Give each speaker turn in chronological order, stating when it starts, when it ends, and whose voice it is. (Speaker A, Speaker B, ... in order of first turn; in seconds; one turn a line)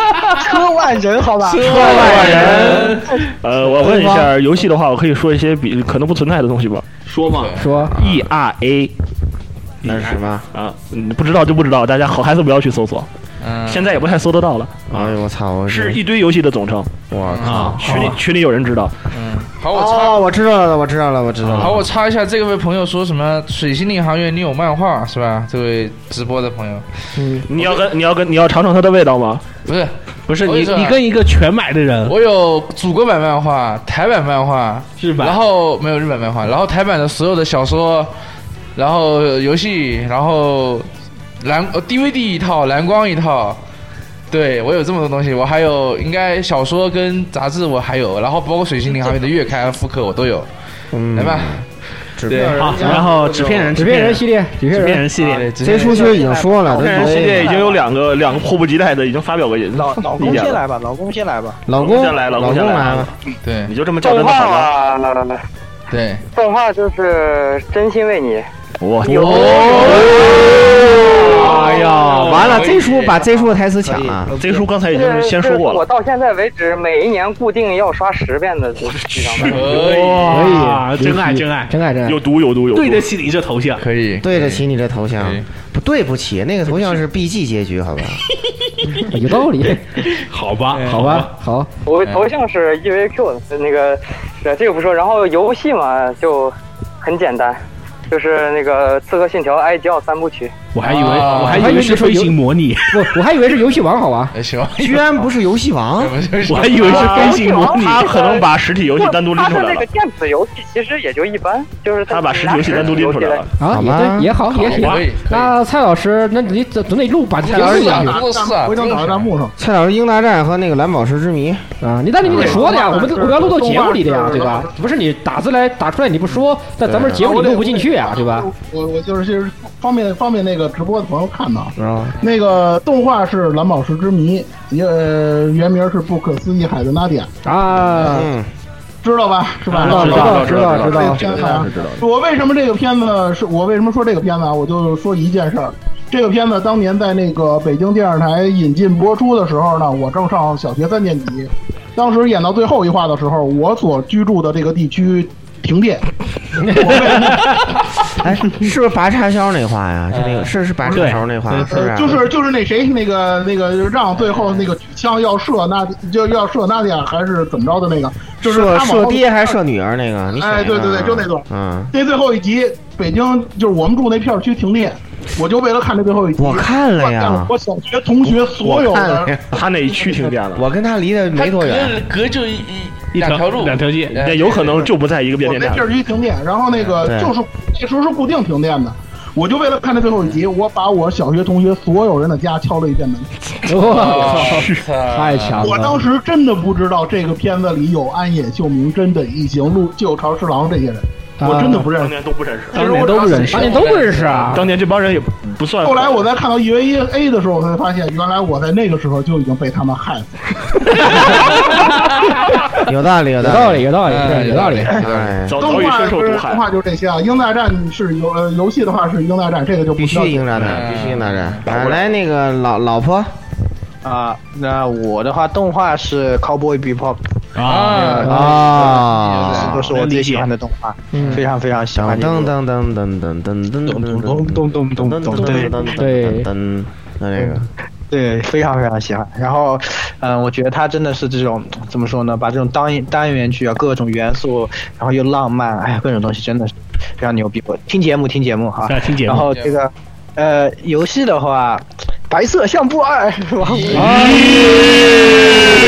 Speaker A: 0.4-2.4
Speaker B: 1.5-3.0
Speaker C: 1.6-3.0
Speaker D: 2.0-2.7
Speaker D: 3.3-6.9
Speaker C: 3.8-4.3
Speaker B: 7.1-7.5
Speaker E: 7.2-7.7
Speaker F: 7.6-8.0
Speaker D: 8.0-8.9
Speaker C: 9.8-10.4
Speaker B: 9.9-10.2
Speaker D: 10.5-13.1
Speaker E: 13.4-13.9
Speaker D: 13.6-17.0
Speaker C: 14.9-16.0
Speaker C: 17.1-18.1
Speaker E: 17.2-17.6
Speaker B: 17.4-18.2
Speaker D: 17.6-18.9
Speaker E: 19.1-20.2
Speaker C: 19.7-21.9
Speaker E: 21.5-26.9
Speaker F: 27.2-27.4
Speaker D: 27.5-29.4
Speaker E: 29.7-31.0
Speaker B: 30.3-32.2
Speaker E: 32.1-38.1
Speaker B: 35.0-35.4
Speaker E: 38.8-40.9
Speaker E: 41.4-43.6
Speaker E: 44.3-50.5
Speaker C: 50.9-51.6
Speaker E: 51.1-51.6
Speaker C: 52.2-53.6
Speaker E: 52.2-53.0
Speaker B: 52.4-55.5
Speaker F: 53.8-55.1
Speaker E: 55.2-56.2
Speaker C: 55.6-57.6
Speaker A: 55.7-57.8
Speaker D: 56.7-60.6
Speaker A: 59.8-61.6
Speaker C: 61.7-63.1
Speaker D: 61.7-63.1
Speaker E: 63.4-63.7
Speaker D: 63.7-64.7
Speaker G: 64.0-65.4
Speaker E: 65.9-66.2
Speaker G: 66.3-68.5
Speaker D: 68.8-70.4
Speaker E: 69.0-73.3
Speaker C: 69.5-74.3
Speaker A: 73.4-74.8
Speaker D: 74.4-75.8
Speaker G: 74.9-79.7
Speaker D: 78.9-80.2
Speaker E: 79.5-80.5
Speaker B: 79.8-81.7
Speaker F: 80.3-82.2
Speaker D: 82.0-83.1
Speaker B: 82.7-83.8
Speaker E: 83.8-84.6
Speaker C: 84.2-88.2
Speaker E: 85.2-85.5
Speaker F: 89.0-89.9
Speaker B: 90.3-91.3
Speaker E: 90.8-91.1
Speaker F: 90.9-91.7
Speaker G: 91.9-100.5
Speaker B: 100.7-103.0
Speaker E: 100.8-101.8
Speaker F: 101.3-104.3
Speaker E: 104.3-105.1
Speaker C: 104.8-106.2
Speaker E: 106.0-107.4
Speaker B: 106.5-108.1
Speaker D: 106.7-109.9
Speaker G: 106.9-113.5
Speaker D: 112.1-113.5
Speaker F: 113.6-118.2
Speaker C: 113.7-114.3
Speaker E: 114.5-115.5
Speaker D: 114.6-115.0
Speaker E: 117.4-119.3
Speaker H: 117.5-119.5
Speaker C: 119.6-121.7
Speaker F: 121.8-128.5
Speaker C: 122.2-122.7
Speaker H: 122.3-124.8
Speaker C: 126.8-127.3
Speaker H: 127.2-137.3
Speaker C: 131.8-132.2
Speaker E: 132.2-132.4
Speaker F: 137.4-138.3
Speaker C: 138.0-138.5
Speaker H: 139.0-156.1
Speaker B: 139.7-140.3
Speaker D: 139.8-142.0
Speaker F: 139.8-141.4
Speaker H: 156.7-157.5
Speaker C: 158.2-162.2
Speaker E: 160.1-160.5
Speaker B: 160.9-162.2
Speaker H: 161.7-169.6
Speaker E: 164.2-164.7
Speaker C: 168.4-171.9
Speaker H: 170.4-179.3
Speaker C: 176.4-177.5
Speaker C: 178.3-179.6
Speaker D: 179.5-180.7
Speaker C: 180.5-182.0
Speaker E: 181.4-184.9
Speaker B: 183.1-184.2
Speaker D: 184.2-185.9
Speaker H: 185.4-193.3
Speaker E: 186.7-187.1
Speaker C: 187.0-187.3
Speaker F: 193.7-196.0
Speaker D: 193.7-194.9
Speaker E: 193.8-195.8
Speaker H: 195.6-202.2
Speaker F: 201.4-201.9
Speaker D: 201.9-202.9
Speaker H: 202.7-203.7
Speaker B: 202.7-203.8
Speaker E: 203.1-204.6
Speaker F: 203.5-204.7
Speaker D: 204.5-206.3
Speaker H: 205.8-211.8
Speaker F: 211.1-211.4
Speaker E: 211.2-211.5
Speaker C: 212.8-213.9
Speaker F: 213.4-215.0
Speaker E: 214.1-215.2
Speaker C: 214.9-215.9
Speaker D: 215.4-216.6
Speaker H: 215.6-220.8
Speaker C: 220.0-223.4
Speaker E: 220.6-221.7
Speaker D: 221.7-222.0
Speaker A: 224.0-227.4
Speaker B: 227.6-228.2
Speaker E: 227.7-229.9
Speaker A: 228.0-232.5
Speaker F: 228.2-228.6
Speaker C: 228.3-229.8
Speaker B: 229.8-230.5
Speaker F: 231.1-231.4
Speaker E: 231.2-231.4
Speaker C: 231.9-237.7
Speaker A: 233.9-235.8
Speaker F: 235.8-236.5
Speaker A: 238.1-254.2
Speaker B: 248.9-249.5
Speaker E: 249.5-249.8
Speaker E: 253.6-255.8
Speaker F: 253.9-254.4
Speaker B: 254.1-254.6